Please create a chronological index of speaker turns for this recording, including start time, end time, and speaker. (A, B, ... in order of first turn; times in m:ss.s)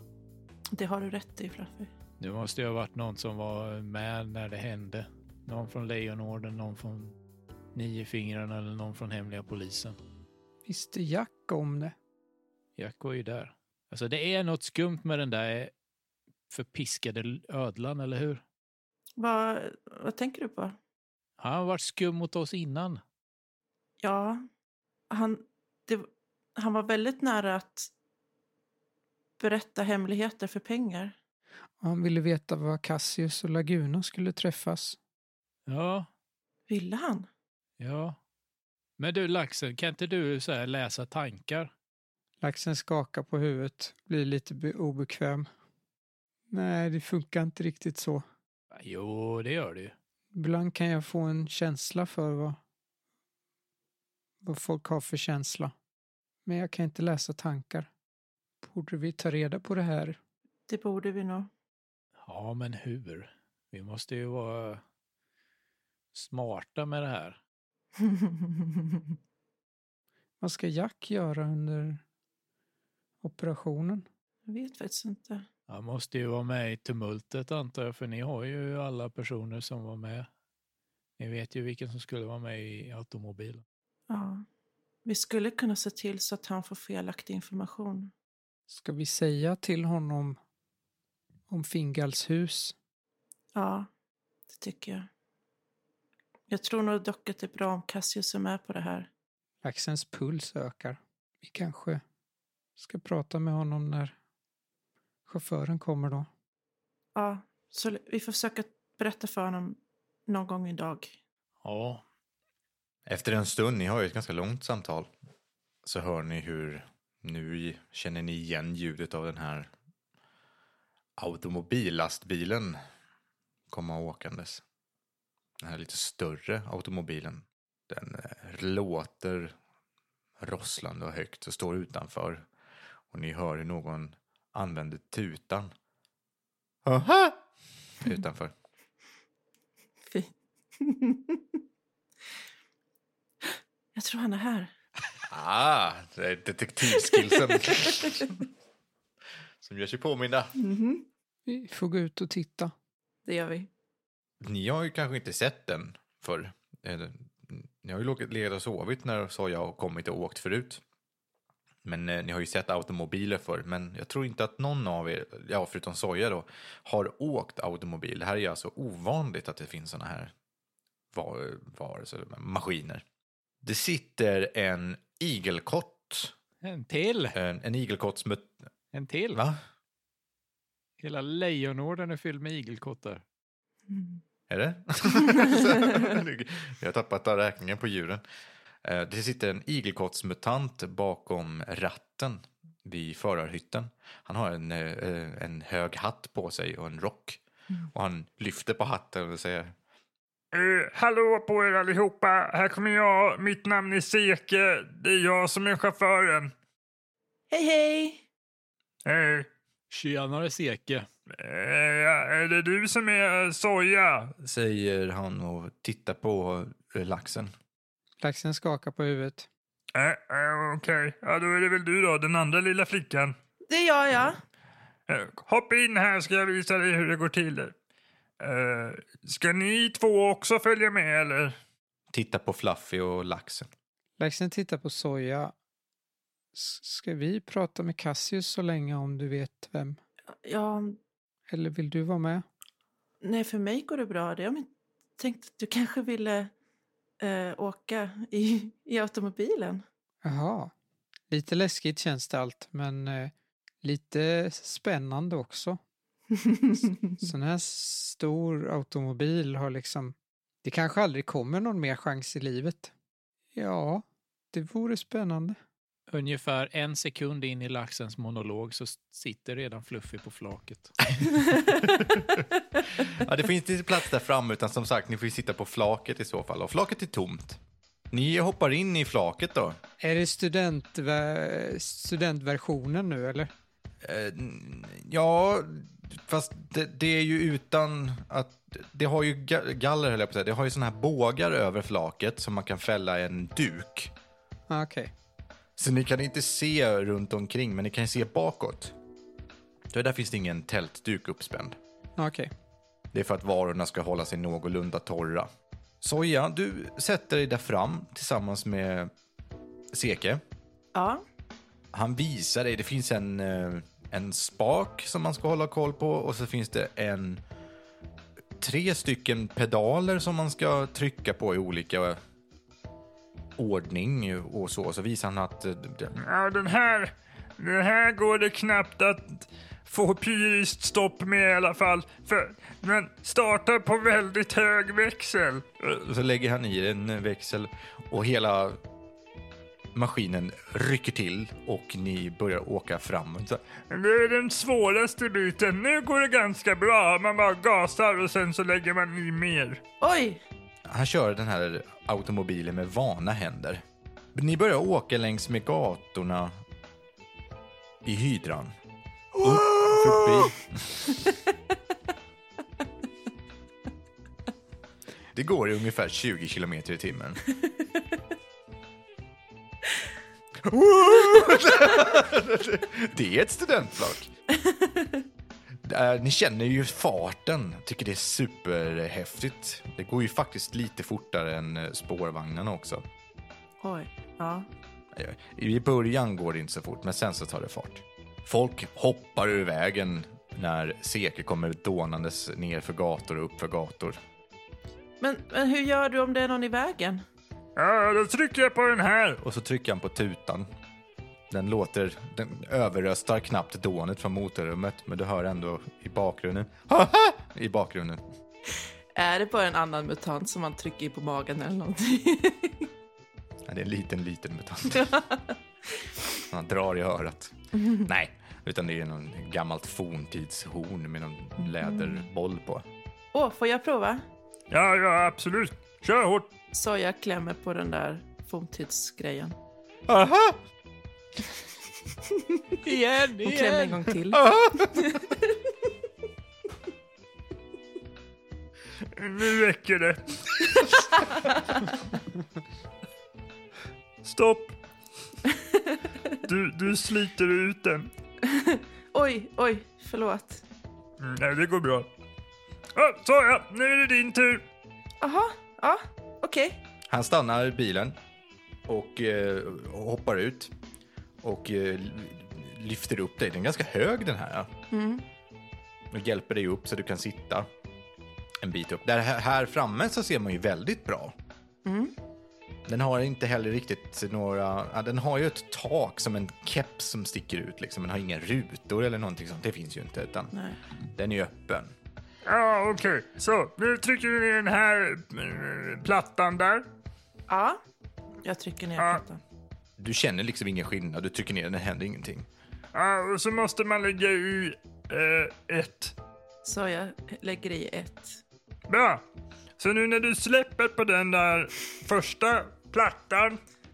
0:00.7-0:01.9 A
0:02.2-0:07.1 B
0:07.8-0:10.0 B
0:10.6-0:12.0 C
0:12.8-0:15.7 B
0:16.5-0:18.4 B
0:19.2-0:20.8 A
0:21.4-0:23.0 B
0:24.0-0:24.4 A
0:25.1-0:27.9 A
0:29.4-0:31.2 A
0:31.8-0:35.0 C
0:35.7-0:36.1 B
0:36.7-0:37.3 A
0:37.8-0:38.2 B
0:39.0-0:41.7 B
0:42.4-0:45.5 C
0:46.5-0:48.2 C
0:48.7-0:49.9 B
0:50.3-0:52.6 C
0:54.4-0:55.7 C
0:56.4-0:57.9 C
0:58.6-1:00.2 C
1:00.7-1:01.5 A
1:02.2-1:04.8 B
1:06.1-1:07.4 B
1:08.0-1:09.1 A
1:10.4-1:12.0 C
1:13.2-1:14.0 C
1:14.5-1:15.5 A
1:15.7-1:20.3 B
1:21.2-1:23.6 B
1:24.1-1:24.4 A
1:25.0-1:28.1 A
1:28.7-1:30.4 C
1:31.5-1:32.8 C
1:33.6-1:33.9 A
1:34.5-1:35.1 A
1:36.5-1:39.1 A
1:39.6-1:42.0 C
1:42.8-1:44.2 C
1:45.3-1:46.3 C
1:47.2-1:51.2 A
1:51.6-1:52.0 B
1:53.1-1:55.1 D
1:55.8-1:59.7 D
2:01.2-2:02.8 D
2:03.7-2:04.6 D
2:05.6-2:09.6 D
2:10.4-2:12.4 D
2:13.1-2:15.7 D
2:16.8-2:17.4 D
2:18.0-2:18.5 D
2:20.1-2:21.4 A
2:24.0-2:24.7 A
2:25.3-2:28.4 D
2:27.1-2:28.1 A
2:29.6-2:30.6 D
2:30.6-2:31.0 A
2:31.5-2:32.7 C
2:33.2-2:33.7 A
2:34.4-2:40.8 D
2:41.8-2:50.3 D
2:51.1-2:53.0 D
2:53.6-2:56.3 D
2:56.6-2:57.4 B
2:57.3-2:58.7 D
2:58.9-2:59.4 B
2:59.3-2:59.6 D
3:01.0-3:03.2 B
3:03.9-3:04.2 A
3:04.5-3:08.2 D
3:08.8-3:17.4 D
3:17.9-3:19.7 D
3:20.5-3:26.5 E
3:27.5-3:28.2 A
3:29.0-3:29.5 E
3:29.9-3:31.1 B
3:31.4-3:34.3 E
3:34.4-3:37.5 D
3:38.2-3:39.5 C
3:40.0-3:43.3 E
3:43.7-3:44.4 A
3:45.1-3:47.7 E
3:48.4-3:51.6 E
3:52.1-3:53.7 D
3:54.2-3:55.5 C
3:56.5-4:00.0 C
4:00.4-4:01.0 A
4:01.5-4:02.4 C
4:03.2-4:06.5 A
4:07.2-4:09.8 A
4:10.2-4:10.7 C
4:11.3-4:15.8 C
4:17.2-4:22.9 C
4:23.5-4:25.6 C
4:26.1-4:31.1 B
4:31.8-4:32.4 D
4:33.0-4:37.6 D
4:38.1-4:39.8 D
4:40.0-4:43.5 C
4:44.0-4:54.1 D
4:54.7-4:55.1 C
4:55.8-4:59.0 D
4:59.9-5:01.8 D
5:02.2-5:02.5 C
5:03.1-5:05.5 D
5:06.0-5:09.1 D
5:09.9-5:10.4 D
5:10.9-5:11.2 A
5:11.9-5:17.4 D
5:18.6-5:22.2 D
5:23.6-5:26.2 D
5:26.2-5:35.8 E
5:35.9-5:38.8 D
5:39.9-5:43.6 D
5:43.9-5:49.8 E
5:50.0-5:50.4 A
5:50.9-5:53.8 D
5:54.3-5:56.6 D
5:58.0-5:58.7 D
5:59.4-6:01.2 D
6:05.3-6:07.4 D
6:10.6-6:14.3 D
6:14.6-6:15.2 A
6:15.8-6:23.0 D
6:23.8-6:24.7 A
6:25.1-6:34.2 D
6:35.2-6:37.2 A
6:37.8-6:39.4 E
6:39.4-6:40.7 D
6:41.5-6:48.2 D
6:49.2-6:52.9 A
6:53.7-6:55.1 D
6:54.9-6:55.6 A
6:56.5-7:02.9 D
6:57.8-6:58.1 A
7:03.3-7:04.2 A
7:04.7-7:06.5 E
7:06.7-7:09.6 A
7:10.1-7:10.6 D
7:12.3-7:12.6 A
7:12.8-7:14.1 B
7:13.4-7:14.4 A
7:14.3-7:15.1 D
7:15.0-7:15.5 A
7:19.2-7:21.1 E
7:24.2-7:24.7 E
7:25.5-7:26.0 A
7:26.5-7:28.1 E
7:28.4-7:30.6 A
7:31.2-7:32.1 E
7:33.0-7:34.6 E
7:35.2-7:36.8 A
7:37.1-7:38.2 D
7:38.9-7:40.7 D
7:41.4-7:44.7 D
7:44.9-7:45.2 A
7:46.1-7:47.7 D
7:48.6-7:51.3 D
7:51.8-7:52.2 A
7:52.9-8:00.5 D
8:00.5-8:00.8 A
8:01.1-8:01.9 D
8:02.4-8:06.8 E
8:07.5-8:07.8 A
8:08.4-8:09.4 A
8:10.0-8:12.5 D
8:12.9-8:16.1 E
8:16.6-8:18.4 A
8:18.9-8:19.2 E
8:19.8-8:23.6 E